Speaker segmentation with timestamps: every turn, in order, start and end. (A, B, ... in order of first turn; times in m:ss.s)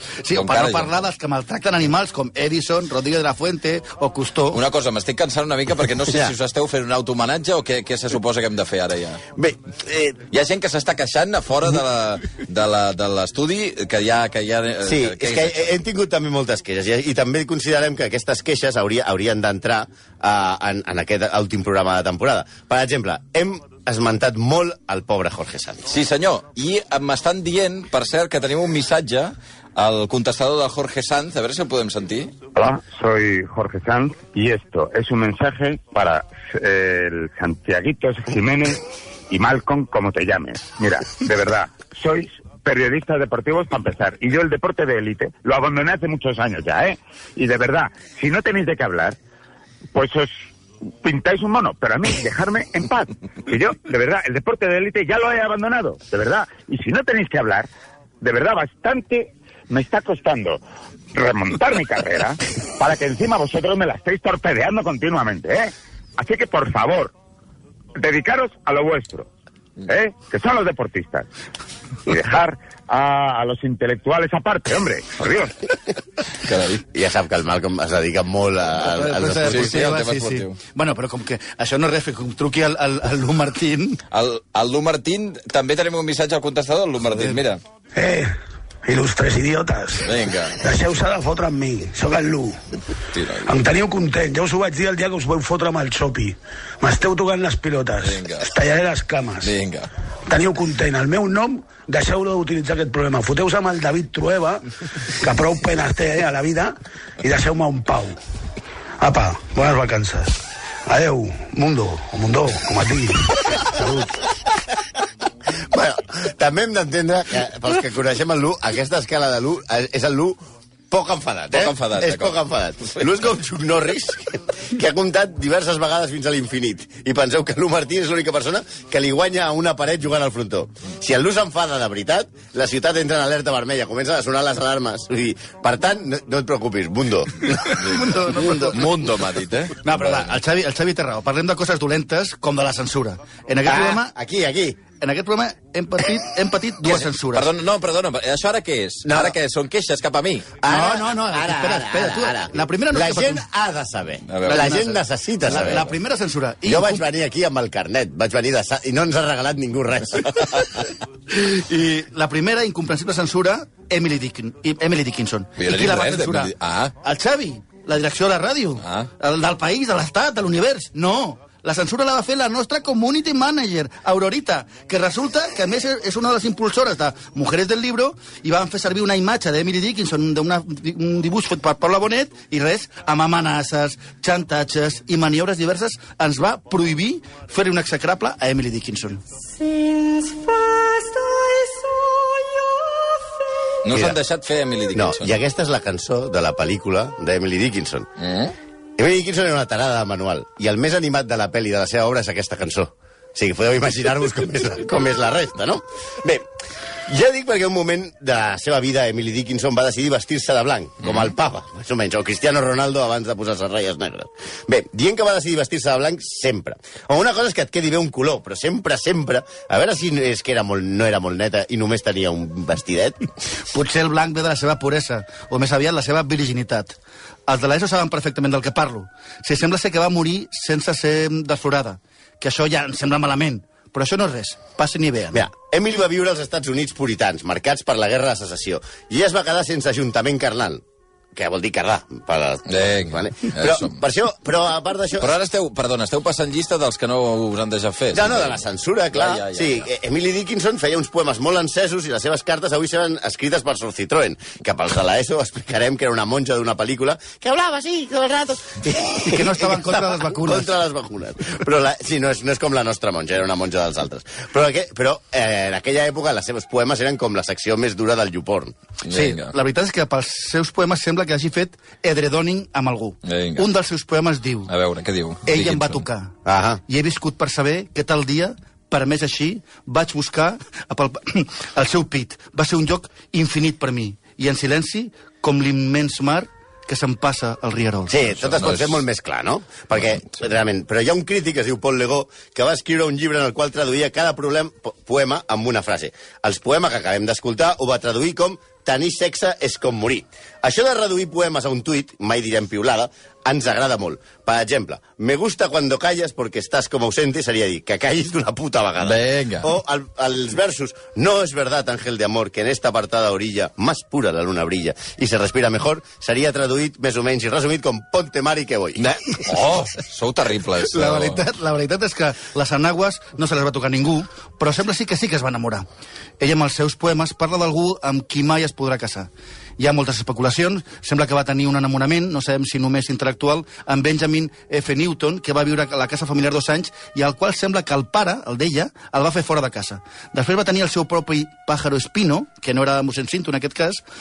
0:00.2-0:04.6 A
0:00.3-0:00.9 B
0:04.5-0:09.2 B
0:06.1-0:06.3 C
0:09.4-0:10.2 C
0:10.3-0:15.7 B
0:14.8-0:25.9 C
0:25.9-0:32.3 B
0:32.5-0:49.2 D
0:49.9-0:50.3 D
0:51.0-0:57.7 D
0:58.2-1:00.6 D
1:01.1-1:07.1 D
1:07.9-1:09.3 D
1:09.8-1:11.3 D
1:12.0-1:15.6 D
1:16.4-1:16.8 B
1:16.9-1:19.9 C
1:18.8-1:24.0 A
1:19.4-1:20.6 B
1:24.1-1:27.6 B
1:27.9-1:32.6 E
1:30.0-1:30.6 B
1:33.1-1:33.6 B
1:33.4-1:39.5 E
1:38.0-1:38.5 B
1:39.4-1:39.9 B
1:40.3-1:48.2 E
1:49.0-1:54.2 E
1:55.7-2:00.4 C
2:00.9-2:17.8 C
2:01.5-2:02.4 B
2:17.6-2:18.8 A
2:17.8-2:20.3 B
2:19.8-2:24.1 A
2:23.6-2:24.8 C
2:25.0-2:27.5 A
2:26.8-2:30.5 B
2:29.0-2:29.4 C
2:30.6-2:35.8 C
2:30.7-2:33.4 A
2:34.3-2:34.8 B
2:34.4-2:37.0 A
2:35.5-2:35.9 B
2:36.6-2:40.7 C
2:41.3-3:09.2 A
2:45.6-2:46.9 B
2:48.8-2:49.1 B
3:13.8-3:15.4 B
3:13.9-3:14.2 C
3:14.9-3:18.1 C
3:18.2-3:18.5 B
3:19.0-3:26.4 C
3:27.1-3:43.2 C
3:43.7-3:46.9 A
3:47.5-3:55.4 A
3:55.3-4:00.8 C
4:01.3-4:05.3 C
4:02.7-4:04.0 B
4:05.2-4:09.9 B
4:08.1-4:28.7 C
4:19.2-4:20.7 A
4:29.0-4:29.5 B
4:29.1-4:34.7 A
4:33.2-4:33.7 B
4:34.7-4:36.0 B
4:35.4-4:36.3 A
4:36.4-4:36.8 C
4:36.9-4:48.2 A
4:48.1-5:19.1 C
4:48.4-4:49.0 B
5:09.0-5:09.7 B
5:19.0-5:21.4 B
5:20.8-5:25.8 A
5:26.4-5:44.0 A